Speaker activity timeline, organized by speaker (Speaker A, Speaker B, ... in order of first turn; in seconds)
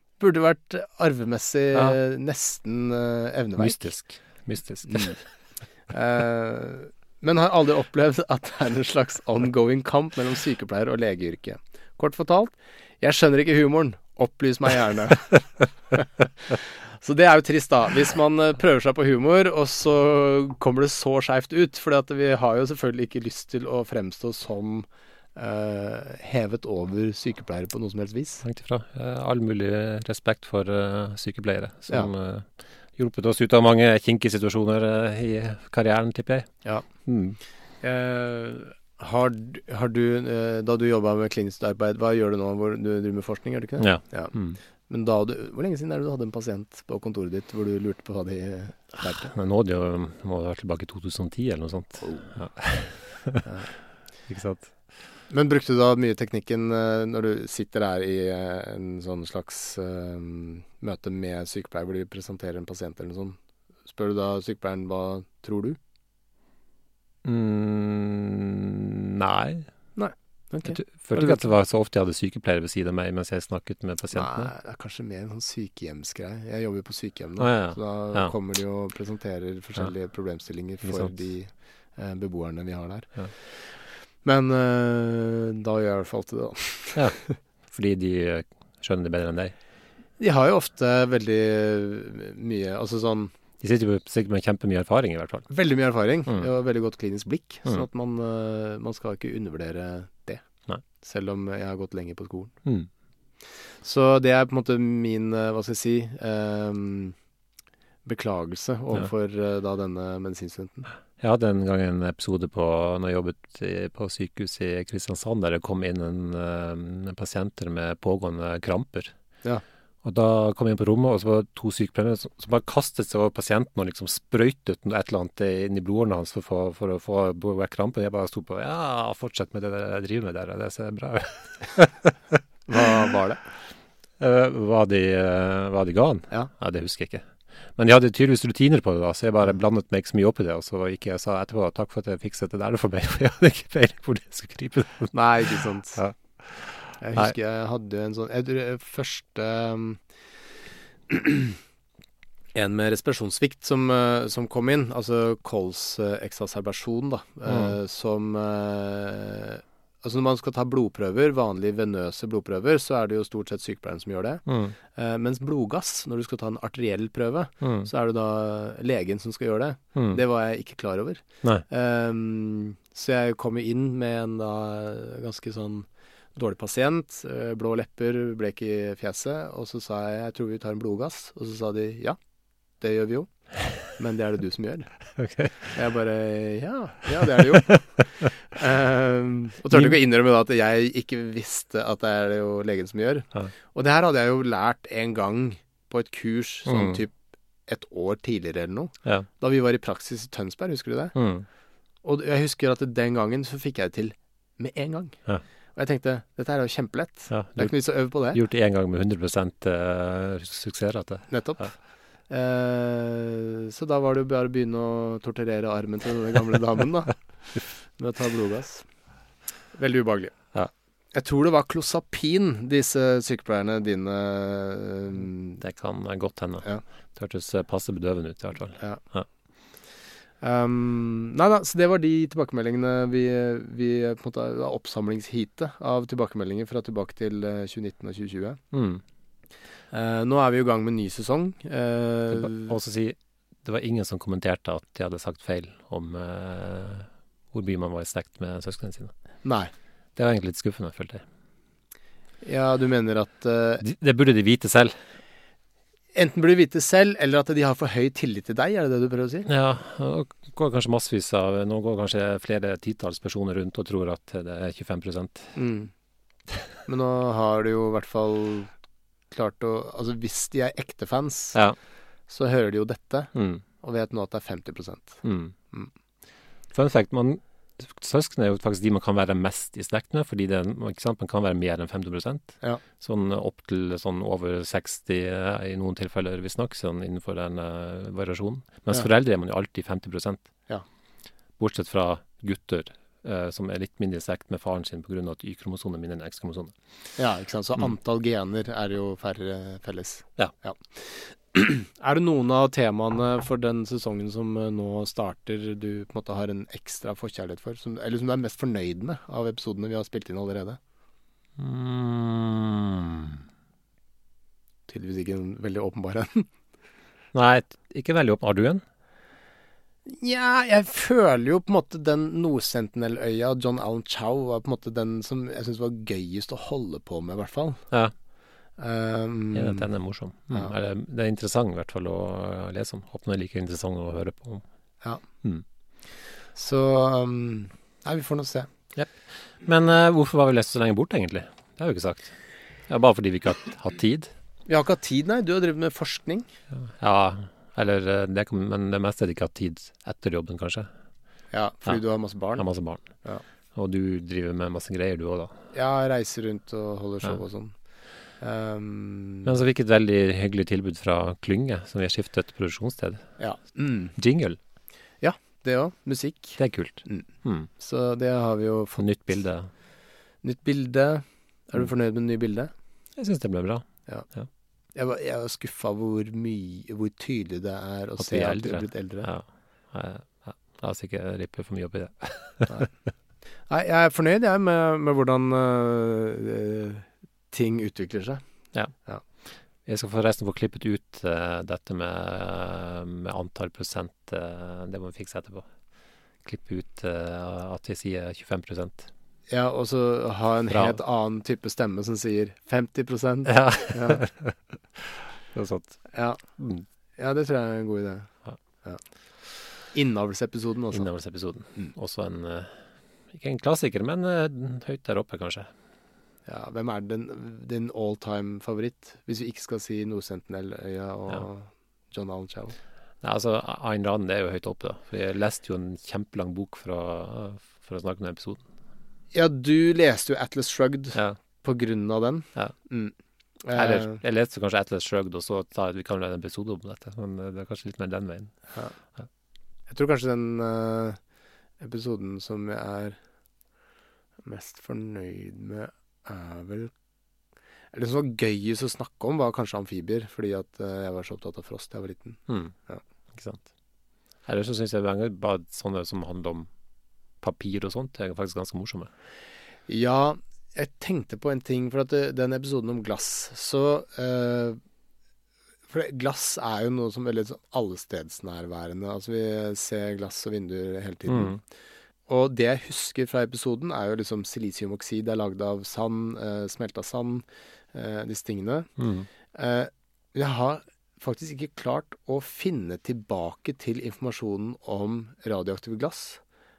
Speaker A: 0.2-3.9, 5.9-15.3, 17.0-28.4, 37.8-44.3, 44.9-49.3, 52.0-52.3, 55.3-65.8, 70.0-71.5, 74.1-83.7, 84.2-87.1, 90.2-93.3, 95.5-100.4, 101.0-102.5, 103.8-107.1, 108.0-110.9, 132.7-133.4, 145.1-146.0, 147.0-150.0, 151.1-151.5, 152.5-182.2, 182.8-184.9, 185.7-197.1, 197.7-201.1, 202.0-205.2, 205.8-208.4, 211.3-211.7, 212.3-217.1, 218.0-218.8, 219.7-220.3, 221.1-225.6, 230.4-238.6, 239.9-242.7, 249.4-249.7, 252.4-253.8, 256.1-259.5, 265.6-265.9, 266.9-268.7, 269.3-271.6, 272.3-275.2, 297.2-310.8, 314.9-316.5, 320.1-327.8, 328.8-329.9, 336.6-338.7, 344.7-346.5, 351.5-352.6, 355.7-357.7, 358.4-359.5, 363.4-364.1, 365.2-367.2, 367.8-369.0, 370.4-372.7, 374.9-379.3, 383.7-388.4, 399.5-404.2, 406.1-406.4, 407.2-408.3, 409.9-411.1, 416.4-422.7, 429.3-433.1, 433.6-434.2, 439.9-441.2, 441.8-443.2, 444.4-446.9, 447.9-453.0, 459.9-464.8, 465.9-471.6, 472.3-478.9, 479.5-486.4
Speaker B: 3.6-5.2, 28.4-36.5, 37.0-37.4, 43.8-44.6, 49.0-53.4, 54.3-54.7, 67.2-69.7, 70.7-74.5, 77.4-78.3, 80.8-81.1, 86.9-87.2, 87.7-89.5, 93.6-95.5, 111.2-119.1, 120.0-132.4, 134.2-137.2, 137.8-145.1, 145.9-147.3, 157.5-157.7, 164.4-164.7, 167.6-167.9, 169.9-170.2, 185.2-185.6, 196.7-197.0, 201.1-201.4, 207.3-207.8, 208.3-211.7, 225.6-229.3, 238.7-239.0, 242.3-249.1, 250.2-251.2, 253.8-254.9, 259.5-265.5, 273.3-273.6, 275.2-275.5, 276.7-290.4, 291.6-296.7, 311.6-313.4, 317.3-318.8, 329.5-334.6, 338.9-342.3, 342.9-344.3, 346.9-350.9, 352.6-353.0, 353.8-355.6, 359.4-363.2, 364.2-364.6, 366.6-367.7, 369.0-369.7, 373.2-374.5, 378.2-382.9, 389.9-395.7, 396.4-399.1, 400.7-401.0, 403.5-406.0, 406.6-406.8, 410.9-412.7, 413.3-415.7, 423.2-428.6, 433.7-438.5, 452.5-452.7, 453.3-453.6, 454.5-456.7, 457.4-459.1, 471.3-471.6, 479.0-479.3